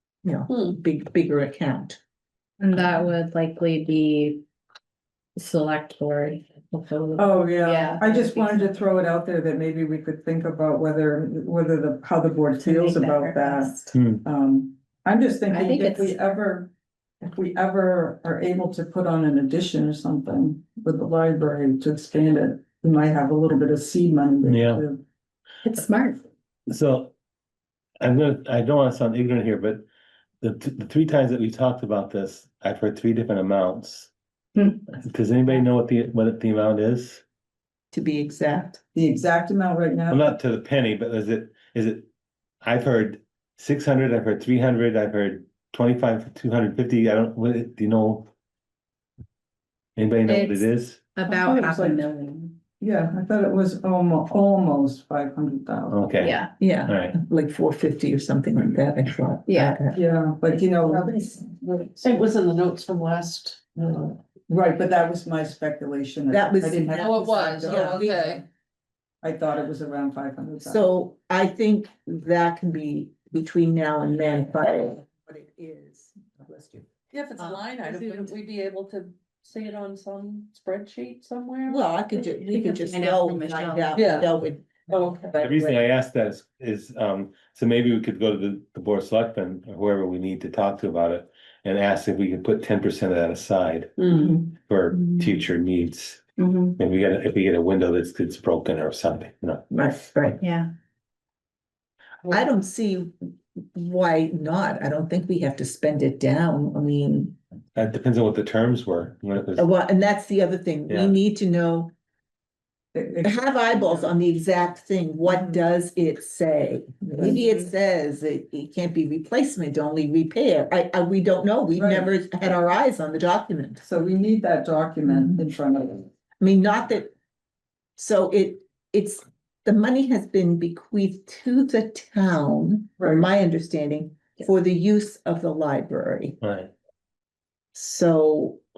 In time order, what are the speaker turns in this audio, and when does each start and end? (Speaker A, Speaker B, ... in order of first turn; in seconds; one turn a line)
Speaker A: 0.2-2.0
Speaker B: 2.6-4.4
Speaker B: 5.4-8.8
Speaker C: 7.2-16.7
Speaker B: 12.6-13.9
Speaker D: 13.9-14.2
Speaker B: 15.5-16.2
Speaker C: 17.2-25.0
Speaker D: 24.4-24.8
Speaker B: 25.6-26.2
Speaker D: 26.7-27.1
Speaker D: 28.0-29.9
Speaker D: 30.4-34.1
Speaker B: 34.6-34.8
Speaker D: 35.0-37.2
Speaker A: 37.9-38.8
Speaker C: 38.9-40.3
Speaker D: 40.1-42.1
Speaker D: 42.6-48.3
Speaker D: 50.0-51.0
Speaker B: 50.3-52.6
Speaker C: 51.3-52.1
Speaker C: 52.8-56.0
Speaker D: 55.9-57.1
Speaker B: 56.2-56.5
Speaker A: 56.6-60.0
Speaker B: 59.5-59.8
Speaker C: 59.9-61.1
Speaker E: 61.0-64.2
Speaker C: 64.5-68.0
Speaker A: 66.3-68.5
Speaker E: 66.9-68.4
Speaker C: 69.2-70.9
Speaker A: 70.6-77.7
Speaker E: 77.1-81.8
Speaker B: 77.9-78.3
Speaker A: 81.7-85.7
Speaker B: 82.4-84.1
Speaker E: 84.0-84.3
Speaker E: 84.9-85.5
Speaker D: 85.4-99.7
Speaker B: 94.9-95.3
Speaker B: 96.4-96.8
Speaker A: 99.7-100.4
Speaker B: 100.4-100.7
Speaker A: 102.3-103.1
Speaker A: 103.8-107.4
Speaker D: 107.8-109.7
Speaker A: 109.6-111.9
Speaker D: 110.9-111.2
Speaker C: 112.9-114.1
Speaker A: 113.2-123.8
Speaker C: 115.3-115.6
Speaker C: 121.8-122.1
Speaker C: 123.8-126.1
Speaker A: 125.1-125.4
Speaker A: 126.4-127.1
Speaker A: 128.0-136.4
Speaker C: 133.0-133.3
Speaker D: 136.4-136.7
Speaker A: 137.7-138.6